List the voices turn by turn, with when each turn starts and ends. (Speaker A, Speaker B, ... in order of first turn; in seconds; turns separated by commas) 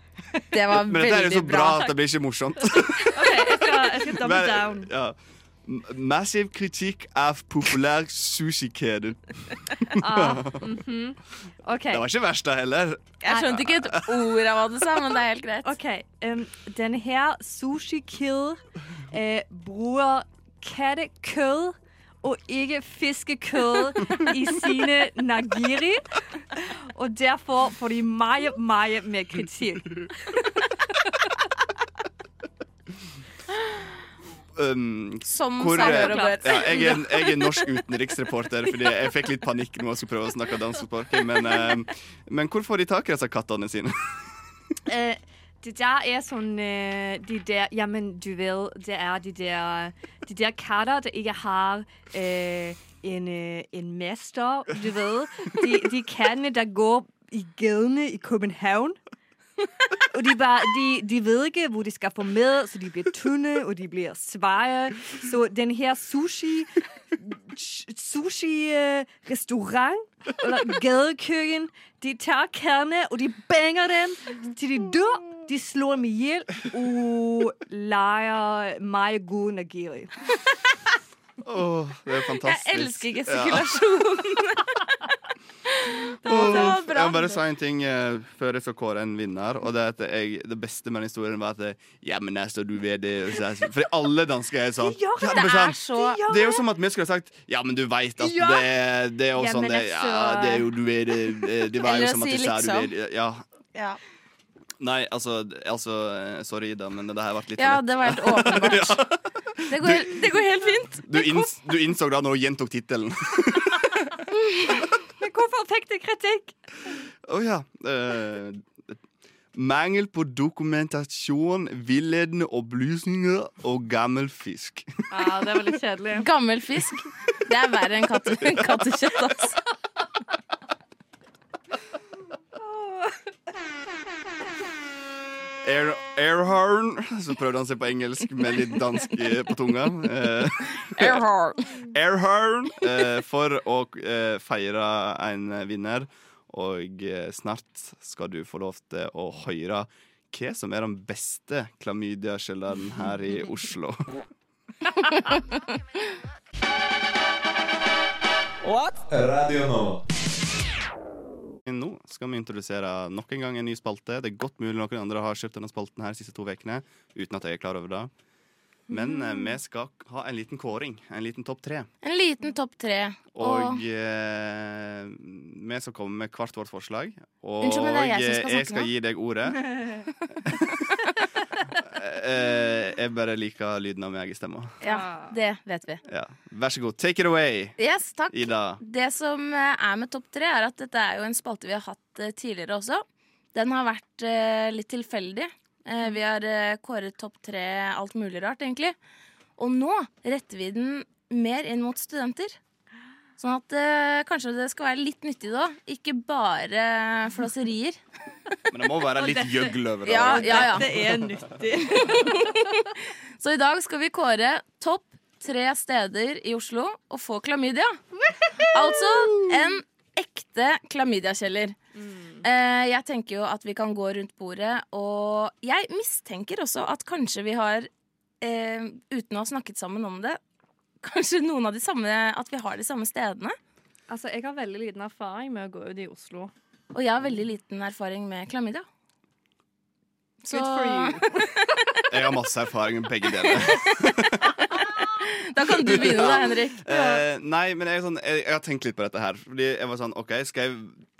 Speaker A: 0.5-1.9, Speaker B: 0.7-10.7, Speaker C: 2.7-4.9, Speaker C: 9.9-12.1, Speaker B: 11.9-14.4, Speaker A: 13.2-15.7, Speaker C: 15.6-30.7, Speaker B: 34.6-44.3, Speaker A: 35.3-37.0, Speaker C: 35.8-37.7, Speaker C: 44.9-59.0, Speaker C: 60.0-80.3, Speaker B: 81.4-83.8, Speaker A: 82.4-85.0, Speaker A: 85.7-87.4, Speaker C: 86.2-86.8, Speaker B: 86.2-103.4, Speaker C: 94.8-96.7, Speaker A: 95.3-96.2, Speaker C: 98.2-98.8, Speaker C: 99.3-100.8, Speaker A: 101.8-102.9, Speaker B: 104.8-110.2, Speaker A: 107.6-109.0, Speaker A: 109.7-111.5, Speaker B: 111.0-114.2, Speaker C: 115.1-116.5, Speaker B: 117.2-118.9, Speaker B: 119.5-125.3, Speaker C: 125.1-126.3, Speaker A: 126.2-129.6, Speaker C: 132.6-133.2, Speaker B: 135.6-154.1, Speaker A: 140.9-141.7, Speaker A: 155.1-155.4, Speaker B: 161.7-168.1, Speaker B: 168.9-171.9, Speaker A: 172.0-173.8, Speaker B: 173.3-179.9, Speaker A: 177.6-178.9, Speaker C: 179.7-180.0, Speaker B: 180.4-180.9, Speaker B: 181.8-184.8, Speaker C: 184.8-185.4, Speaker A: 184.8-186.0, Speaker B: 186.1-187.8, Speaker A: 187.8-198.9, Speaker B: 188.3-188.8, Speaker A: 199.6-202.6, Speaker A: 203.4-208.0, Speaker B: 208.7-211.4, Speaker C: 209.1-212.8, Speaker A: 210.1-210.9, Speaker A: 211.9-218.0, Speaker C: 218.2-219.5, Speaker A: 218.6-221.8, Speaker C: 222.0-222.4, Speaker A: 222.4-227.9, Speaker A: 228.4-230.4, Speaker A: 231.0-233.6, Speaker C: 234.1-236.5, Speaker A: 236.9-238.8, Speaker A: 240.4-241.7, Speaker C: 240.5-241.7, Speaker B: 242.1-244.7, Speaker A: 244.8-246.9, Speaker B: 245.8-251.1, Speaker C: 246.9-247.2